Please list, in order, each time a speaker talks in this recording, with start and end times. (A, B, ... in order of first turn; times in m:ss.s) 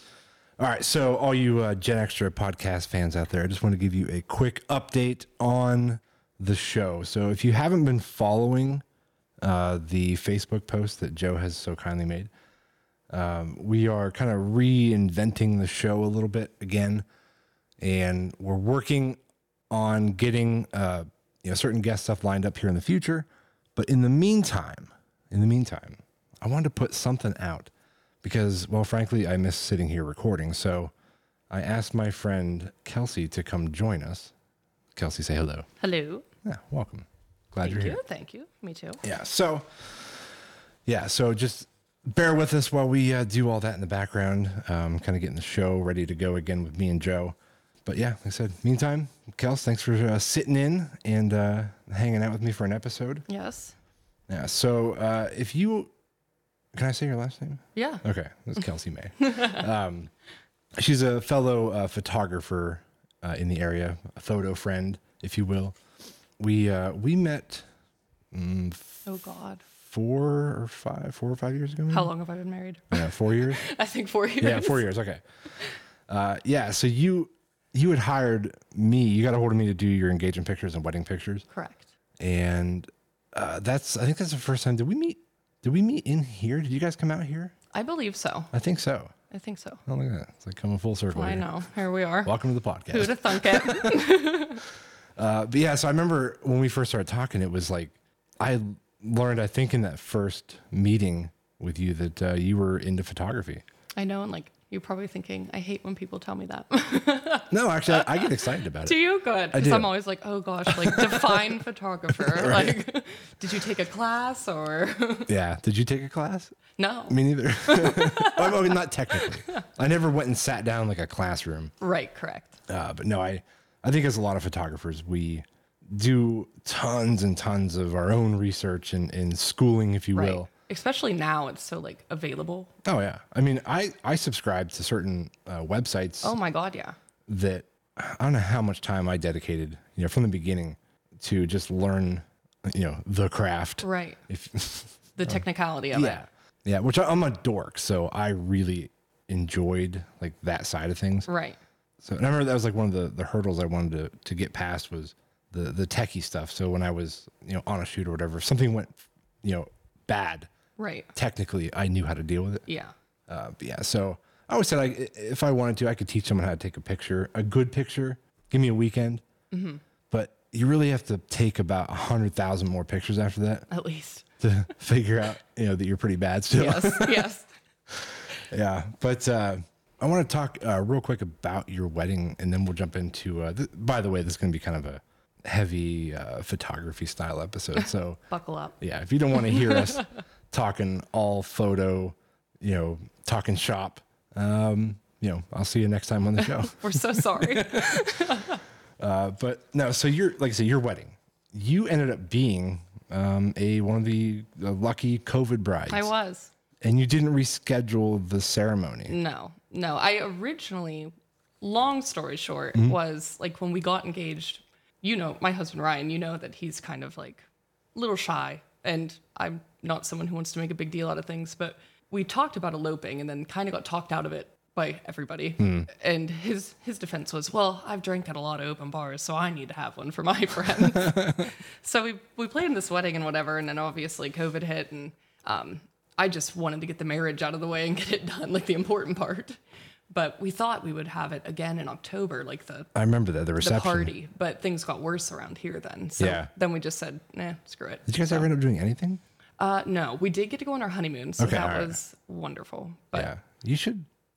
0:00.6-0:08.8 A
0:09.4-0:12.3 A
0:13.1-0:17.0 A
0:17.8-0:27.7 A
0:28.2-0:30.9 A
0:31.5-0:34.3 A
0:35.0-0:35.7 A
0:35.8-0:36.2 B
0:36.4-0:38.0 A
0:37.6-0:39.0 B
0:39.0-0:40.2 A
0:40.9-0:53.2 A
0:53.3-0:53.8 B
0:54.3-0:55.9 A
0:56.7-1:00.1 A
0:57.8-0:58.0 B
0:59.2-0:59.6 B
1:00.8-1:05.8 A
1:06.4-1:07.7 A
1:08.3-1:09.0 A
1:09.0-1:09.6 B
1:09.8-1:12.1 A
1:11.9-1:14.8 B
1:12.9-1:13.6 A
1:14.4-1:15.2 A
1:16.1-1:21.4 A
1:21.5-1:21.9 B
1:22.2-1:27.6 A
1:27.7-1:28.5 B
1:28.5-1:29.1 A
1:29.3-1:29.8 B
1:29.9-1:31.5 A
1:31.1-1:32.3 B
1:32.2-1:34.4 A
1:32.9-1:34.6 B
1:35.2-1:43.6 A
1:44.0-1:55.3 B
1:47.5-1:49.0 A
1:49.5-1:49.9 A
1:50.7-1:51.6 A
1:52.1-1:52.8 A
1:55.3-1:56.6 A
1:56.8-1:59.6 B
1:57.1-2:01.7 A
2:01.8-2:02.6 B
2:02.7-2:10.5 A
2:10.1-2:12.7 B
2:12.8-2:16.4 A
2:16.2-2:17.0 B
2:17.3-2:31.3 A
2:23.8-2:24.2 B
2:25.2-2:26.2 B
2:31.3-2:31.6 B
2:32.0-2:40.5 A
2:40.8-2:41.1 B
2:41.1-2:42.6 A
2:42.7-2:42.9 B
2:43.3-2:49.2 A
2:49.5-2:49.8 B
2:50.1-2:53.7 A
2:53.7-2:54.2 B
2:54.4-2:57.3 A
2:56.5-2:57.5 B
2:57.9-3:08.2 A
3:08.3-3:08.8 B
3:08.8-3:18.3 A
3:09.5-3:10.0 B
3:16.4-3:18.6 B
3:19.0-3:26.1 A
3:25.9-3:26.5 B
3:26.8-3:29.2 A
3:29.1-3:37.4 B
3:38.0-3:59.6 B
3:45.6-3:45.9 A
3:51.0-3:51.4 A
4:00.1-4:02.9 B
4:03.0-4:04.1 A
4:03.6-4:08.5 B
4:06.2-4:06.5 A
4:08.1-4:09.2 A
4:09.6-4:13.3 B
4:11.4-4:12.0 A
4:13.1-4:14.1 A